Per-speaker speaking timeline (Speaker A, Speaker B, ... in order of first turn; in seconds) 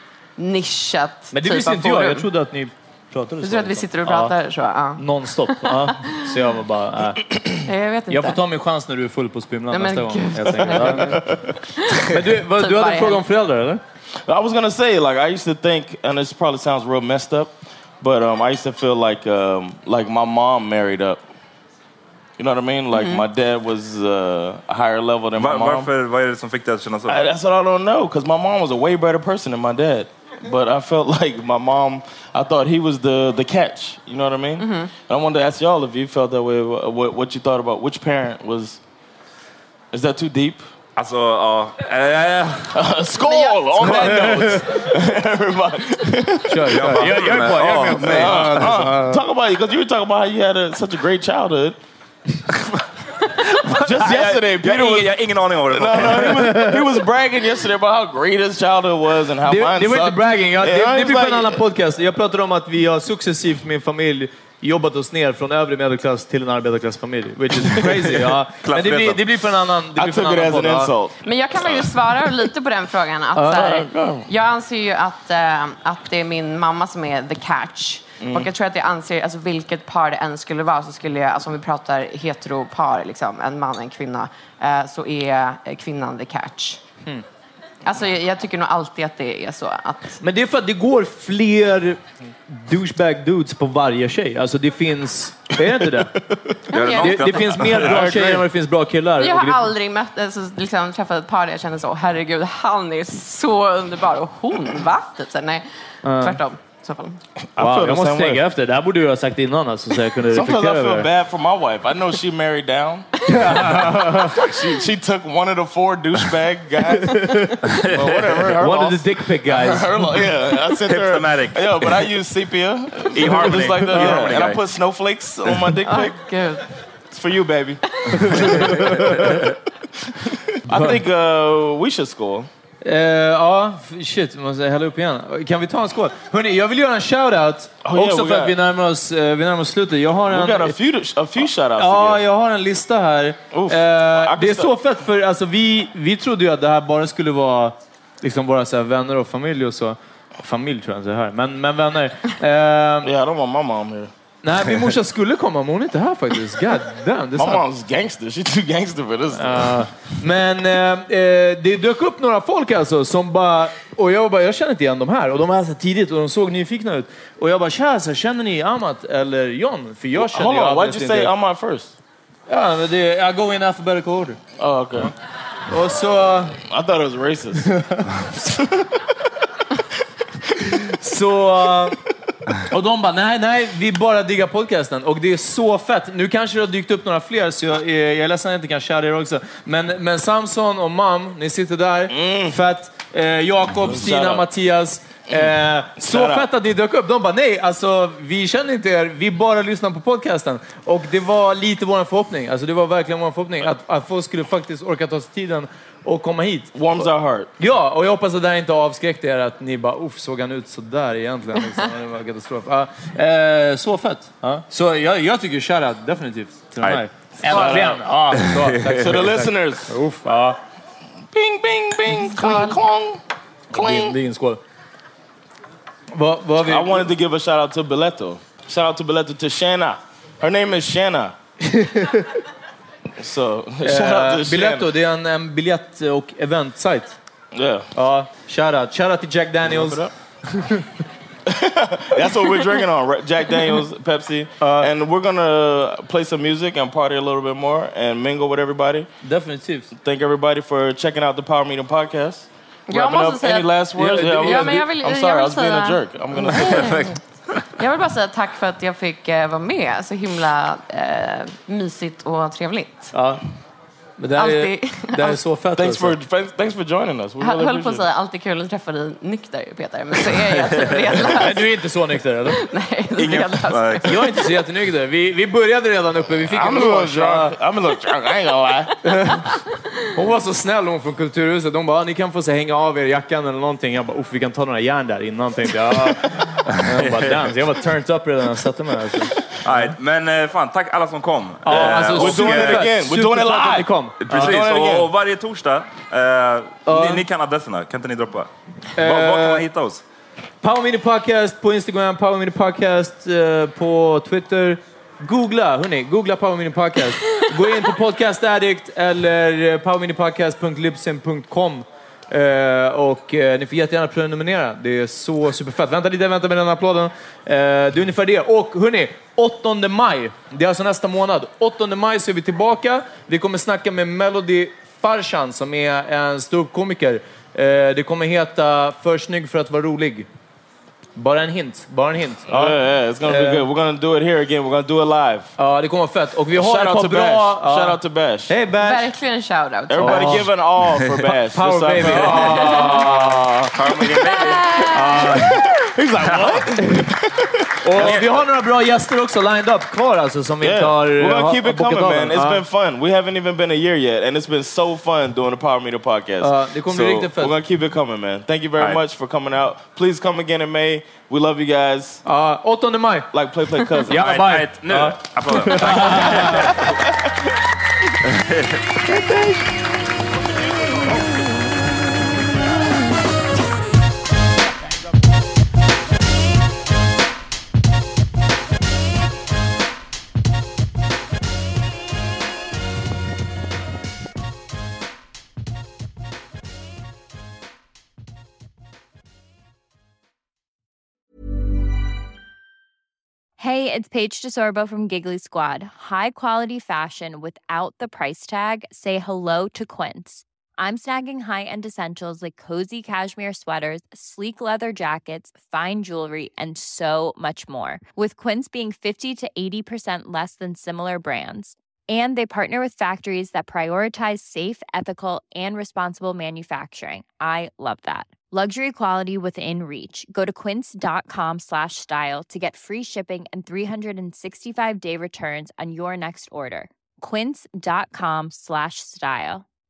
Speaker A: 0.4-2.3, 3.4-6.0, 7.7-8.4, 9.7-13.2, 22.9-23.2, 34.6-34.9, 43.2-44.1, 71.2-86.8, 87.8-90.2, 96.7-97.2, 99.2-107.2, 125.8-126.7, 127.9-128.8, 222.4-222.7, 252.9-257.2, 257.8-263.1, 264.3-265.4, 267.4-271.8, 272.4-274.3, 338.7-340.4, 342.6-343.3, 344.0-345.4
Speaker B: 1.3-4.3, 5.0-7.3, 8.1-11.2, 12.0-13.8, 43.8-44.6, 46.5-49.2, 56.2-56.8, 59.4-70.9, 73.3-73.6, 90.2-96.2, 97.0-99.7, 106.0-106.4, 107.6-111.1, 113.3-114.4, 117.0-117.6, 118.6-119.9, 123.8-124.1, 128.3-129.4, 130.7-131.0, 132.8-140.8, 141.8-153.1, 154.4-157.6, 159.3-171.3, 172.5-174.4, 175.7-176.6, 177.7-178.1, 180.7-182.0, 182.7-220.6, 223.7-224.6, 226.1-227.1, 231.7-232.2, 233.8-237.2, 237.9-240.0, 240.5-240.8, 244.6-244.9, 249.2-249.9, 253.9-254.8, 263.1-263.4, 264.2-266.1, 271.3-272.6, 274.0-277.5, 279.0-279.4, 280.1-289.9, 291.6-294.5, 296.9-297.2, 298.9-299.6, 300.6-330.3, 331.1-333.6, 335.6-338.0, 338.5-339.1, 340.0-340.5, 341.5-343.6, 344.9-345.5, 346.8-347.1, 347.8-352.6, 356.4-357.5, 362.2-363.3, 364.1-366.9, 369.1-369.8
Speaker C: 10.7-11.6, 14.2-21.2, 22.4-25.9, 27.1-38.8, 39.9-40.7, 42.7-47.1, 48.0-51.8, 53.8-55.1, 55.7-61.6, 70.0-71.2, 73.5-74.3, 78.2-78.5, 96.2-96.6, 97.6-98.5, 107.5-108.4, 110.3-126.2, 127.1-129.0, 130.2-132.5, 137.8-138.5, 140.3-142.2, 143.5-144.7, 153.0-154.1, 157.3-159.9, 170.1-171.9, 174.6-175.1, 176.6-177.7, 178.3-178.9, 192.1-192.6, 193.7-194.4, 195.3-196.5, 206.7-207.5, 217.3-218.1, 218.9-219.9, 221.3-223.2, 223.7-224.2, 226.6-231.3, 233.2-234.9, 237.5-237.9, 239.6-240.1, 241.4-249.1, 249.9-257.1, 265.8-268.0, 276.5-278.9, 291.7-295.1, 332.5-335.5, 336.5-338.5, 339.9-343.7, 345.8-348.3, 350.6-362.2, 363.3-364.2
Speaker D: 25.4-27.3, 41.0-42.8, 46.7-48.6, 53.4-56.6, 68.6-69.2, 96.7-98.0, 117.7-118.5, 120.9-122.0, 123.1-124.6, 216.8-217.7, 218.3-219.2, 256.7-257.6, 273.1-274.1, 287.1-287.4, 289.5-292.9, 294.2-300.0, 342.1-342.5, 343.7-344.9, 346.2-346.6, 348.0-348.3, 364.1-367.1, 368.2-368.8
Speaker E: 393.6-429.6